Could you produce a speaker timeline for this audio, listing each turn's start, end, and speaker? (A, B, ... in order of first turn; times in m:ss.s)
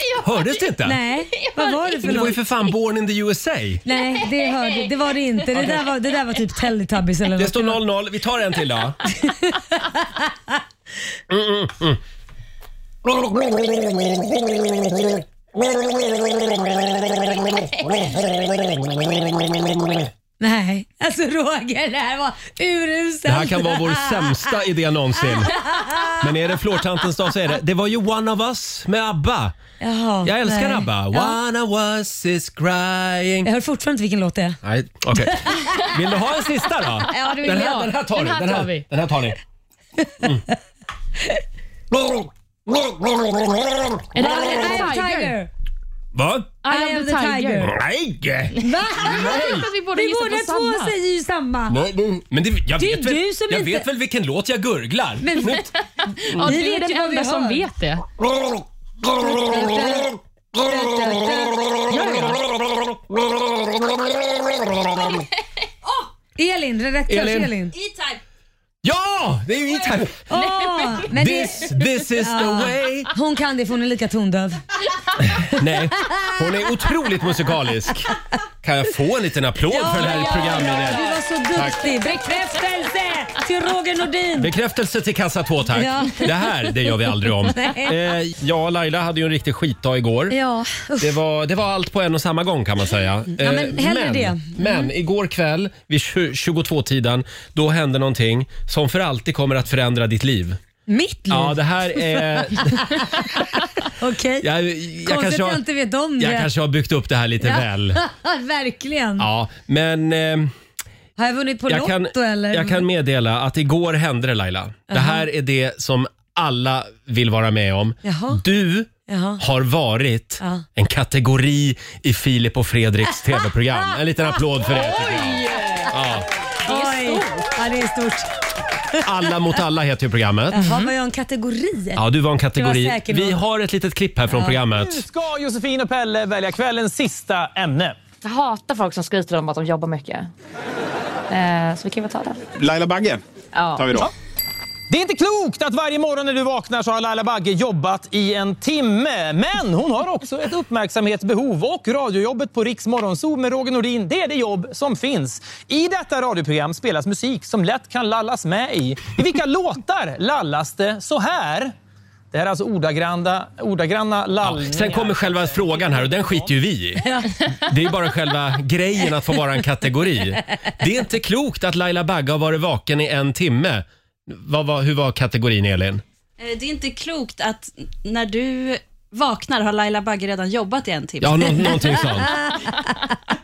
0:00.2-0:01.0 A
0:00.8-0:02.4 B
0:02.0-0:03.8 A
0:03.8-0:07.8 B
0:07.4-0:09.0 A
0:09.2-0:10.2 B
0:11.3-0:12.0 A
0:20.4-0:24.5 B
0:23.3-0:29.6 A
0:25.5-0:26.2 B
0:29.8-0:31.4 B
0:30.2-0:33.5 A
0:33.4-0:34.6 B
0:34.6-0:39.4 A
0:35.2-0:35.7 B
0:37.1-0:37.9 B
0:37.5-0:38.8 C
0:44.1-0:45.3 C
0:44.2-0:45.5 B
0:46.1-0:46.6 A
0:46.6-0:47.7 C
0:46.7-0:47.7 B
0:47.6-0:49.7 A
0:48.6-0:51.8 B
0:48.6-0:50.9 C
0:51.7-0:55.7 A
0:52.8-0:53.9 B
0:55.2-0:55.7 B
0:56.2-0:58.0 C
0:56.3-0:57.6 B
0:59.2-1:02.3 B
1:06.4-1:07.8 B
1:07.1-1:07.5 A
1:08.8-1:10.2 A
1:10.3-1:14.6 B
1:11.1-1:13.1 A
1:15.4-1:18.1 A
1:16.0-1:16.4 B
1:18.6-1:21.9 A
1:19.7-1:24.5 B
1:24.4-1:30.4 A
1:25.7-1:26.3 B
1:27.5-1:28.0 B
1:30.3-1:31.2 B
1:31.0-1:40.6 A
1:33.4-1:34.6 B
1:40.9-1:44.5 B
1:41.3-1:43.4 A
1:44.4-1:45.6 A
1:45.0-1:46.5 B
1:46.2-1:48.0 A
1:47.4-1:49.3 B
1:49.2-1:50.5 A
1:51.2-1:52.8 B
1:51.7-2:06.3 A
1:54.9-1:55.2 B
1:58.0-1:58.4 B
1:59.1-1:59.4 B
2:06.6-2:08.3 B
2:06.7-2:07.2 C
2:09.0-2:10.6 A
2:10.5-2:12.0 B
2:10.6-2:10.9 C
2:12.0-2:15.0 A
2:12.6-2:13.4 B
2:14.7-2:18.0 D
2:18.2-2:20.3 E
2:21.3-2:22.5 E
2:23.5-2:24.0 E
2:24.9-2:41.7 D
2:42.3-2:46.5 D
2:44.4-2:47.0 A
2:47.6-2:56.0 A
2:56.4-3:02.1 F
3:01.2-3:02.4 A
3:02.2-3:02.9 B